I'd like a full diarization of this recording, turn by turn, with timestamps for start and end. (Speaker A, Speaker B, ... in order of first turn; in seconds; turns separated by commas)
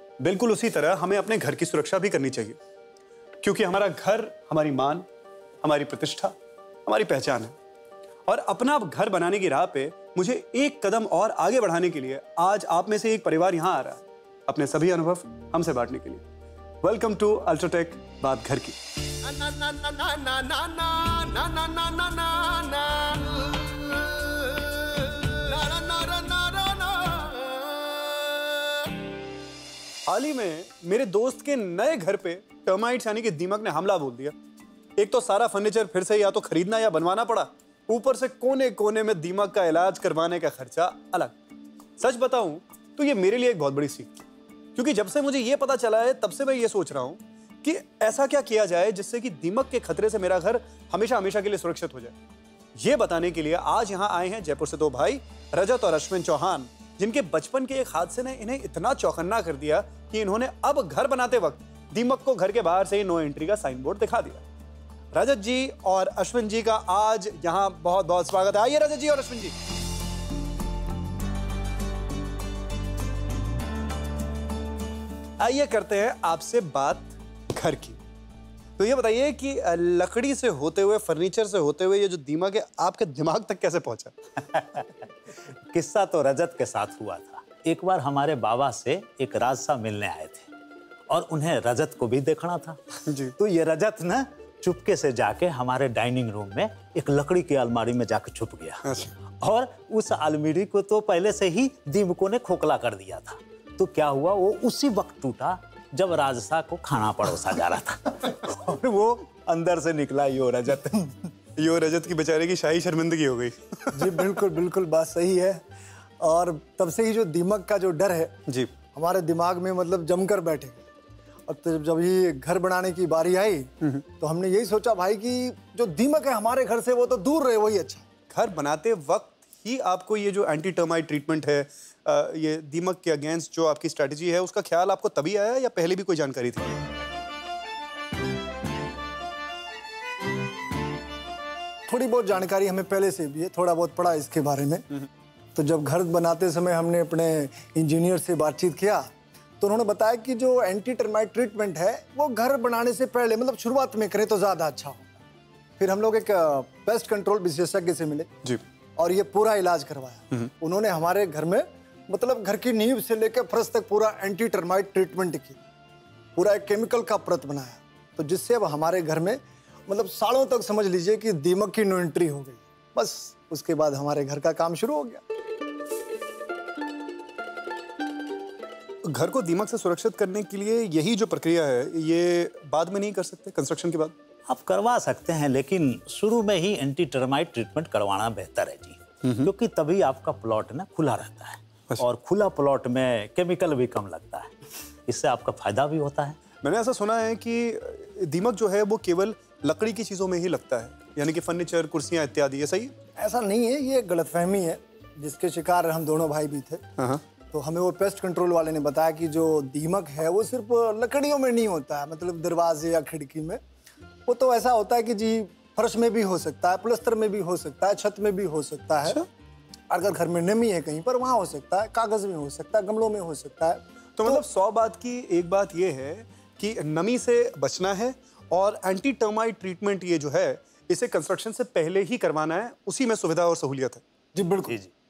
Speaker A: 0.2-2.6, Speaker A: 3.4-5.0, Speaker A: 5.6-6.3, Speaker A: 6.9-7.5, Speaker A: 8.3-16.2, Speaker A: 16.8-28.5, Speaker A: 30.1-34.3, Speaker A: 35.0-41.4, Speaker A: 42.0-44.1, Speaker A: 44.8-52.1, Speaker A: 52.8-64.5, Speaker A: 65.1-69.5, Speaker A: 75.4-78.0, Speaker A: 78.8-84.2, Speaker B: 84.4-90.5, Speaker B: 91.1-92.8, Speaker A: 93.1-93.3, Speaker B: 93.4-98.8, Speaker A: 98.8-99.1, Speaker B: 99.4-111.2, Speaker A: 111.6-114.2, Speaker C: 113.9-115.6, Speaker C: 116.2-118.3, Speaker A: 118.5-118.7, Speaker C: 118.9-120.8, Speaker C: 121.5-128.1, Speaker A: 128.3-136.8, Speaker C: 141.9-144.9, Speaker C: 145.6-149.1, Speaker C: 149.6-155.2, Speaker C: 155.8-158.3, Speaker C: 159.0-165.6, Speaker C: 166.4-175.2, Speaker A: 179.1-184.1, Speaker B: 184.5-194.5, Speaker A: 189.2-189.5, Speaker B: 195.1-196.4, Speaker A: 196.6-202.9, Speaker C: 203.2-206.8, Speaker A: 207.0-207.2, Speaker C: 207.5-213.6, Speaker C: 214.3-219.2, Speaker C: 219.9-224.4, Speaker A: 224.2-234.0, Speaker C: 234.3-234.8